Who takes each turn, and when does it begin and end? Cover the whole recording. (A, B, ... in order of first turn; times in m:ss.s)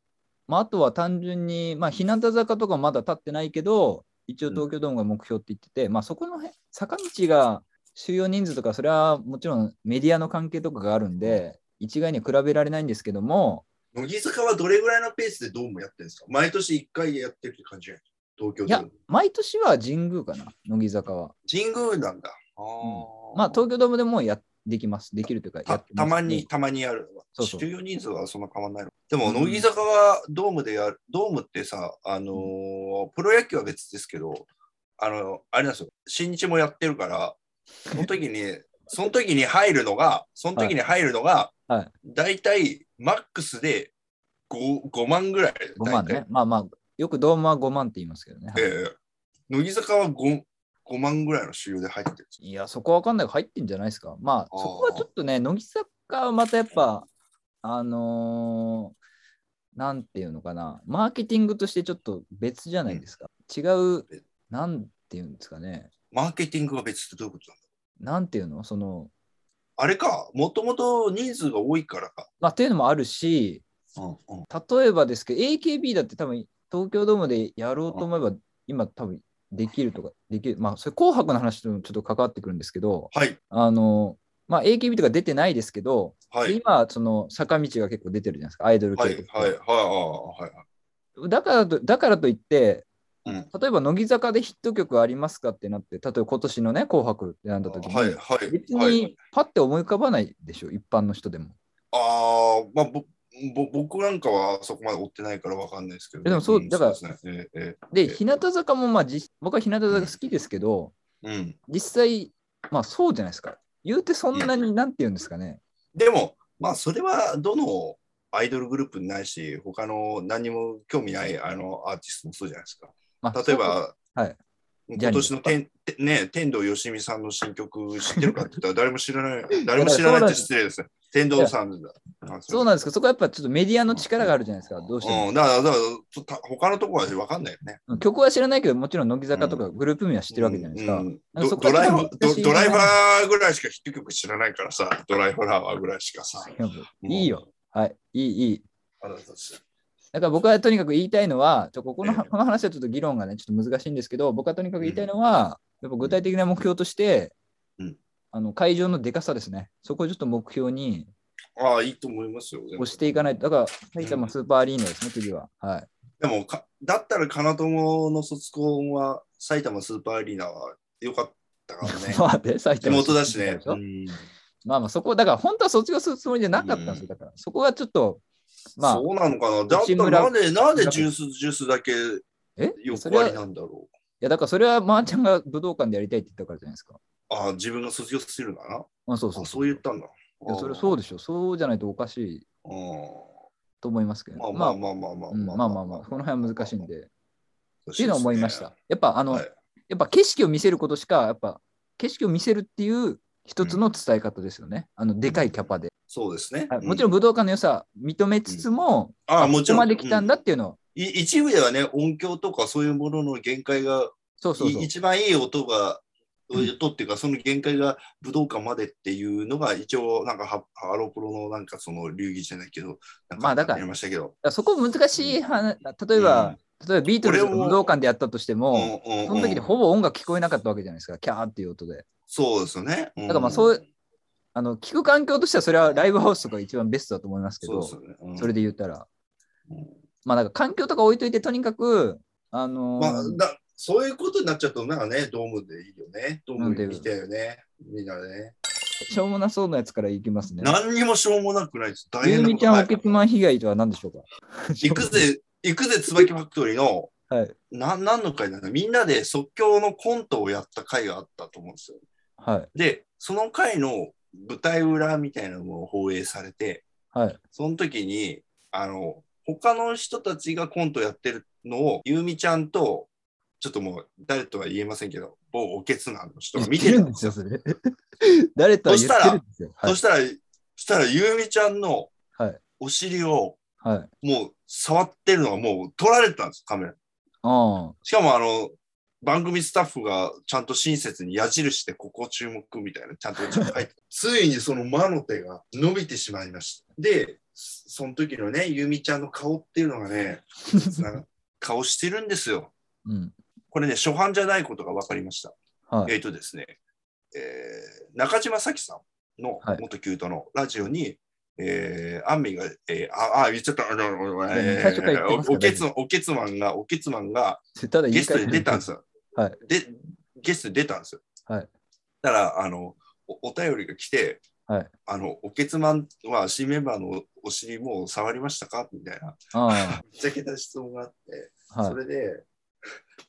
0:00.5-0:13.7 A
0:13.9-0:18.9 B
0:18.6-0:21.3 A
0:21.4-0:23.6 B
0:22.8-0:26.5 A
0:25.6-0:37.4 B
0:27.4-0:27.6 A
0:29.2-0:29.7 A
0:37.9-0:41.5 B
0:42.0-0:43.9 B
0:44.5-0:46.2 B
0:45.8-0:48.7 A
0:48.5-0:48.9 B
0:49.5-0:52.3 B
0:52.4-0:57.1 A
0:54.5-0:55.1 B
0:57.6-0:58.9 A
0:59.8-1:05.9 A
1:06.1-1:07.6 B
1:08.0-1:09.1 A
1:09.8-1:12.3 B
1:12.4-1:13.6 A
1:14.0-1:14.5 B
1:14.5-1:29.5 A
1:23.1-1:23.4 B
1:26.3-1:26.6 B
1:29.0-1:30.6 B
1:31.2-1:41.6 A
1:37.7-1:39.0 B
1:41.9-1:48.2 B
1:46.2-1:47.0 A
1:47.9-1:50.9 A
1:51.2-1:51.6 B
1:51.7-1:55.6 A
1:55.9-2:04.0 B
2:03.2-2:04.4 A
2:04.9-2:12.7 B
2:05.0-2:05.5 A
2:09.7-2:10.5 A
2:12.5-2:15.3 A
2:15.0-2:17.8 B
2:17.9-2:23.0 A
2:19.3-2:19.6 B
2:20.3-2:26.5 B
2:26.4-2:28.6 A
2:27.0-2:27.4 B
2:29.0-2:29.6 B
2:30.1-2:37.3 A
2:32.0-2:32.3 B
2:34.8-2:35.0 B
2:38.3-2:41.1 A
2:41.6-2:43.4 B
2:42.8-2:45.9 A
2:44.0-2:44.3 B
2:46.2-2:52.2 B
2:51.8-2:53.8 A
2:52.8-2:54.2 B
2:54.6-2:58.2 A
2:56.5-2:57.1 B
2:58.8-2:59.0 A
2:58.8-3:02.2 B
2:59.7-3:01.1 A
3:02.6-3:03.4 A
3:02.8-3:03.9 B
3:04.2-3:07.0 A
3:07.3-3:11.0 B
3:09.1-3:09.8 A
3:10.5-3:12.4 A
3:12.6-3:13.3 B
3:13.8-3:14.8 A
3:14.4-3:16.9 B
3:15.3-3:17.1 A
3:17.8-3:18.7 B
3:18.0-3:25.9 A
3:25.3-3:25.5 B
3:26.1-3:27.1 B
3:26.7-3:30.8 A
3:29.3-3:30.3 B
3:30.9-3:44.3 B
3:34.4-3:34.9 A
3:43.4-3:43.8 A
3:44.4-3:52.0 A
3:45.2-3:45.4 B
3:46.2-3:46.6 B
3:47.2-3:47.9 B
3:48.7-3:49.7 B
3:52.3-3:53.8 B
3:53.3-3:53.8 A
3:54.5-3:59.1 A
3:55.8-3:56.1 B
3:57.6-3:58.5 B
3:59.7-4:00.0 B
4:00.2-4:03.4 A
4:03.0-4:08.6 B
4:06.6-4:07.1 A
4:09.1-4:10.8 A
4:10.6-4:13.2 B
4:12.2-4:15.2 A
4:14.8-4:17.1 B
4:17.3-4:17.5 A
4:17.7-4:22.0 B
4:22.4-4:22.7 A
4:22.7-4:26.8 B
4:27.1-4:27.4 A
4:27.5-4:37.4 B
4:36.5-4:40.0 A
4:38.9-4:42.1 B
4:42.8-4:43.6 B
4:43.8-4:44.1 A
4:44.2-4:47.0 B
4:47.4-4:48.0 A
4:48.0-5:02.7 B
5:03.0-5:03.3 A
5:03.7-5:05.5 B
5:05.9-5:06.1 A
5:06.0-5:06.8 B
5:07.3-5:19.0 B
5:14.5-5:15.8 A
5:17.8-5:19.6 A
5:19.6-5:21.2 B
5:22.2-5:24.4 B
5:25.1-5:32.4 B
5:29.5-5:30.0 A
5:31.7-5:32.0 A